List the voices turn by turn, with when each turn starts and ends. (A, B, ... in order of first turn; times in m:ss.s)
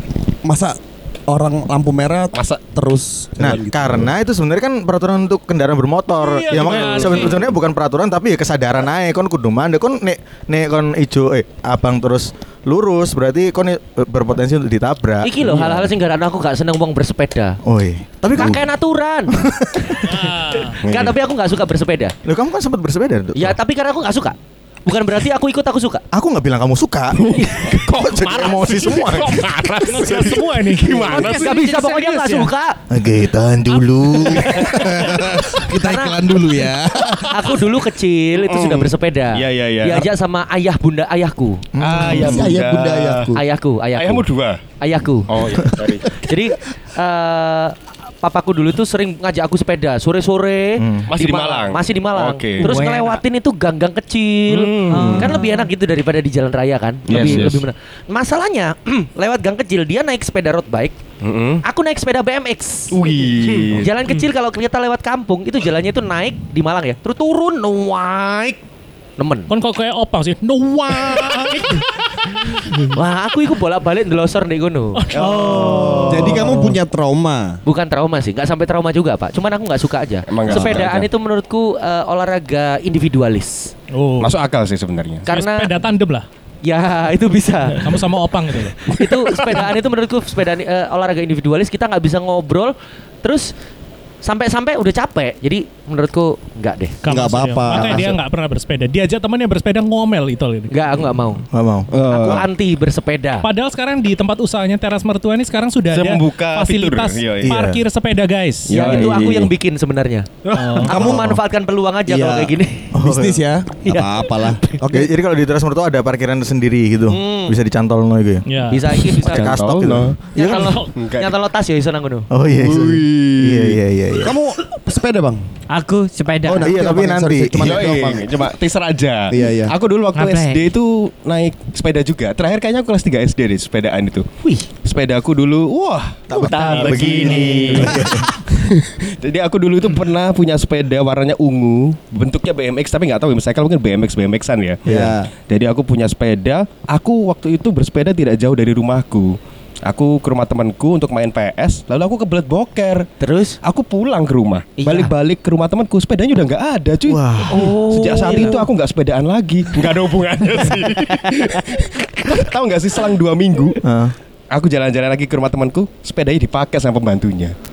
0:00.4-0:04.1 A
0:02.3-0:02.6 B
0:03.4-0:15.4 C
0:06.1-0:07.4 D
0:15.2-0:17.6 E
0:17.6-0:18.7 C
0:18.3-0:19.3 E
0:19.3-0:20.1 C
0:20.0-0:20.8 D
0:20.8-0:21.2 B
0:20.8-0:22.1 E
0:22.2-0:23.6 C
0:23.3-0:26.0 E
0:26.1-0:30.4 C
0:27.2-0:31.5 B
0:29.9-0:31.5 D
0:31.0-0:32.8 E
0:31.1-0:32.5 F
0:32.9-0:35.6 C
0:34.6-0:37.4 A
0:35.7-0:36.2 E
0:37.3-0:41.6 E
0:38.4-0:40.1 B
0:41.7-0:42.5 C
0:41.8-0:43.3 B
0:41.9-0:43.4 A
0:43.3-0:44.3 E
0:44.0-0:44.6 B
0:44.8-0:45.3 E
0:45.3-0:46.2 B
0:46.1-1:01.0 E
0:50.8-0:51.1 C
0:51.1-0:52.8 B
0:52.6-0:53.2 F
0:54.5-0:55.4 B
0:54.9-0:55.7 F
0:57.1-0:57.6 B
1:01.2-1:01.6 B
1:01.6-1:03.1 E
1:02.9-1:03.9 B
1:03.7-1:08.6 E
1:09.2-1:09.5 E
1:09.5-1:12.8 D
1:12.9-1:15.0 E
1:14.9-1:16.5 D
1:15.1-1:16.4 B
1:15.4-1:16.1 F
1:16.0-1:17.6 A
1:17.6-1:23.7 E
1:20.3-1:21.1 B
1:23.9-1:24.3 D
1:24.2-1:25.3 B
1:25.3-1:25.7 E
1:25.3-1:26.2 D
1:26.6-1:28.0 E
1:27.7-1:28.8 D
1:28.8-1:33.5 E
1:29.0-1:29.5 B
1:34.2-1:37.0 E
1:37.0-1:40.8 D
1:37.1-1:38.1 A
1:37.7-1:38.1 C
1:40.7-1:41.4 E
1:41.5-1:41.9 C
1:41.9-1:42.4 B
1:42.0-1:43.4 E
1:43.4-1:48.9 D
1:45.9-1:47.5 B
1:47.4-1:47.8 C
1:48.7-1:49.5 B
1:48.7-1:52.9 E
1:50.4-1:51.0 B
1:50.5-1:51.1 D
1:50.9-1:51.2 C
1:52.9-1:53.4 C
1:53.0-1:55.1 A
1:53.8-1:54.8 E
1:54.8-1:58.5 C
1:57.1-1:57.6 E
1:58.5-1:58.9 D
1:58.7-1:59.6 E
1:59.2-2:00.8 C
1:59.3-2:01.3 B
1:59.7-2:00.1 A
2:00.3-2:02.3 E
2:00.5-2:00.8 D
2:02.3-2:04.3 C
2:02.5-2:03.8 B
2:04.2-2:05.4 A
2:05.7-2:06.7 F
2:06.4-2:08.5 A
2:06.6-2:08.0 C
2:07.6-2:14.3 B
2:09.3-2:09.7 A
2:10.1-2:10.7 F
2:14.8-2:33.1 B
2:16.3-2:18.4 C
2:16.4-2:18.0 F
2:17.7-2:18.1 A
2:24.8-2:25.3 A
2:24.9-2:25.1 C
2:33.2-2:33.6 E
2:33.6-2:43.8 B
2:34.8-2:35.1 E
2:37.1-2:37.7 C
2:37.5-2:38.7 E
2:43.8-2:44.1 C
2:44.5-2:47.5 B